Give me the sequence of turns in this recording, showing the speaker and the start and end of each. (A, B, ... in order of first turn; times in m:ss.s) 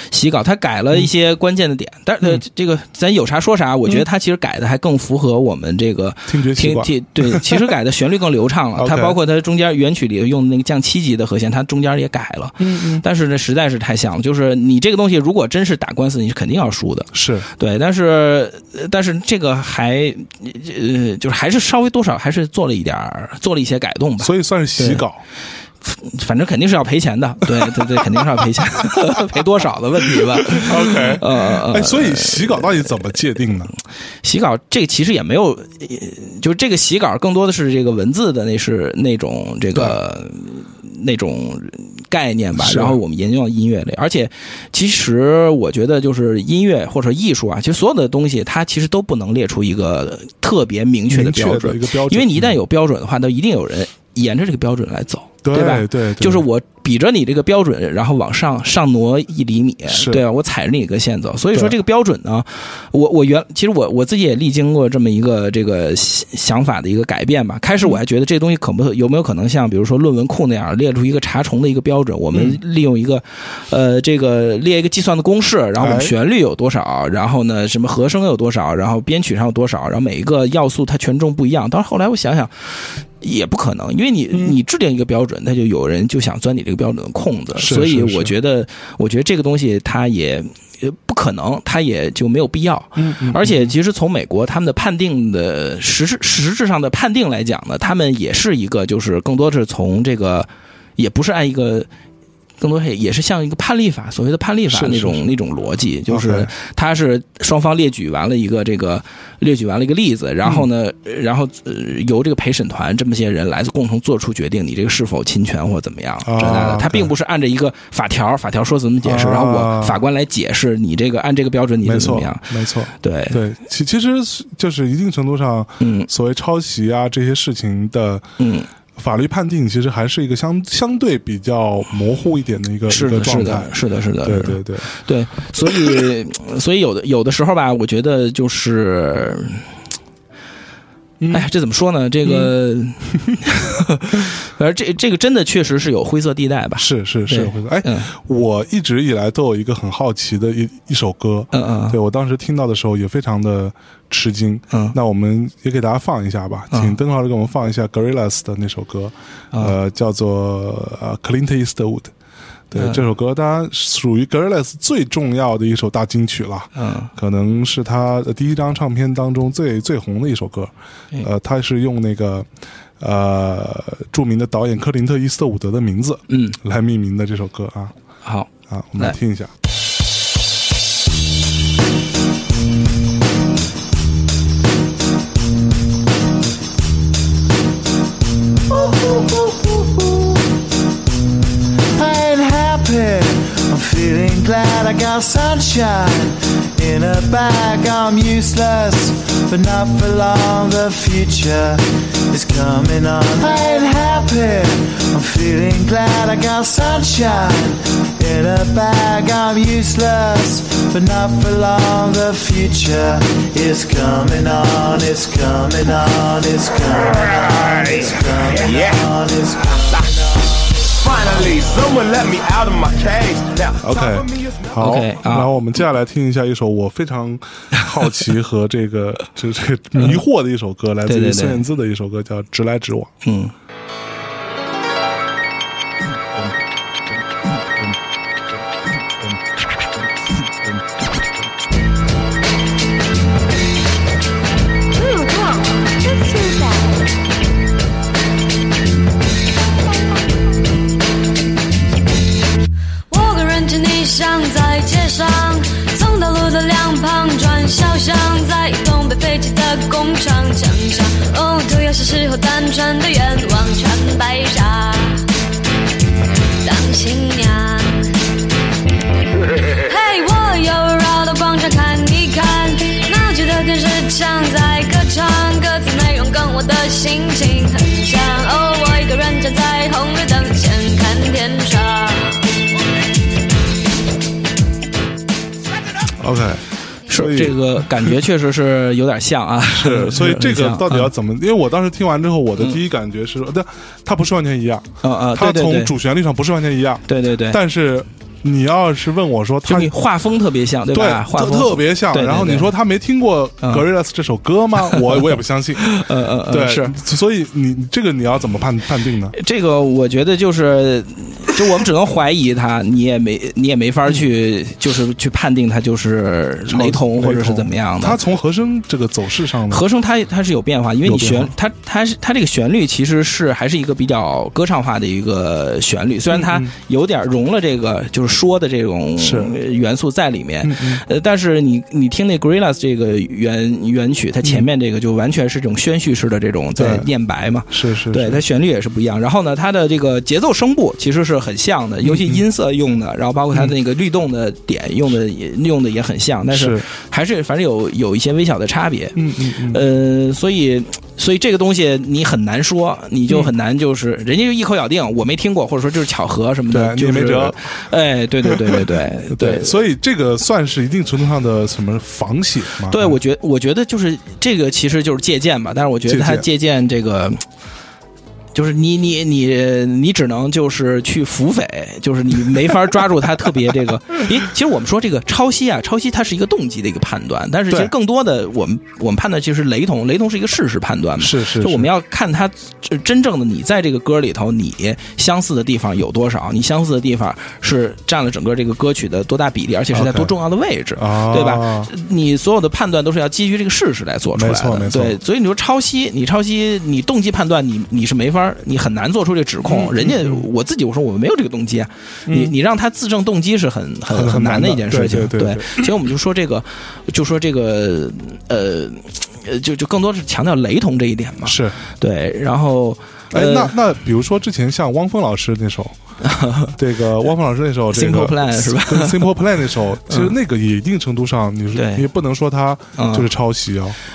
0:00.1-0:25.0 A
0:06.3-0:07.7 B
0:08.8-0:09.2 B
0:12.6-0:13.0 B
0:17.1-0:17.5 B
0:24.2-0:25.2 B
0:25.8-0:32.8 A
0:27.5-0:28.2 B
0:30.1-0:33.7 B
0:34.2-1:41.9 A
0:42.6-0:43.0 B
0:51.1-0:52.6 B
0:55.4-0:56.4 B
0:59.9-1:00.2 B
1:12.3-1:12.6 B
1:15.8-1:16.1 B
1:27.6-1:28.3 B
1:33.0-1:33.7 B
1:42.6-2:02.5 A
1:44.7-1:45.3 B
1:46.1-1:46.5 B
1:56.2-1:57.1 B
1:59.0-2:00.0 B
2:01.8-2:08.3 B
2:03.0-2:03.4 A
2:05.8-2:06.1 A
2:08.4-2:08.7 A
2:09.0-2:14.9 B
2:12.9-2:19.6 A
2:15.6-2:16.0 B
2:21.2-2:21.5 B
2:21.3-2:28.1 A
2:22.2-2:22.5 B
2:26.8-2:42.1 B
2:31.5-2:32.0 A
2:34.7-2:35.0 A
2:36.7-2:37.0 A
2:42.7-2:52.5 B
2:42.7-2:43.0 A
2:46.8-2:47.1 A
2:53.0-2:57.9 B
2:56.3-2:56.6 A
2:58.2-2:59.2 A
2:58.7-2:59.5 B
3:08.7-3:10.4 C
3:12.0-3:40.3 C
3:41.1-3:43.8 D
3:43.8-3:53.1 B
3:44.8-3:45.5 A
3:51.0-3:51.6 A
3:53.2-3:53.5 A
4:05.0-4:06.6 E
4:13.1-4:25.2 E
4:26.6-4:28.2 E
4:29.8-4:42.4 E
4:46.2-4:48.1 B
4:47.1-4:51.1 A
4:49.7-4:59.9 B
4:55.0-4:55.9 A
4:57.1-4:57.6 A
4:59.6-5:02.7 A
5:00.9-5:09.4 B
5:04.8-5:07.0 A
5:09.3-5:18.2 A
5:16.7-5:19.8 B
5:19.7-5:59.8 A
5:21.0-5:21.5 B
5:26.3-5:26.7 B
5:29.2-5:29.6 B
5:30.6-5:31.0 B
5:36.8-5:37.1 B
5:37.7-5:38.4 B
5:42.0-5:42.4 B
5:46.5-5:46.8 B
5:49.2-5:49.8 B
5:56.7-5:57.6 B
5:58.4-6:03.2 B
6:02.9-6:07.4 A
6:06.1-6:06.4 B
6:08.5-6:53.7 A
6:21.2-6:21.9 B
6:29.9-6:30.3 B
6:31.0-6:31.9 B
6:34.3-6:35.2 B
6:39.6-6:40.5 B
6:42.3-6:42.5 B
6:44.1-6:45.9 B
6:51.4-6:51.8 B
6:53.3-6:56.0 B
6:56.2-6:56.8 A
6:56.7-7:04.0 B
6:57.9-6:59.4 A
7:00.1-7:00.3 A
7:01.7-7:02.1 A
7:03.0-7:03.3 A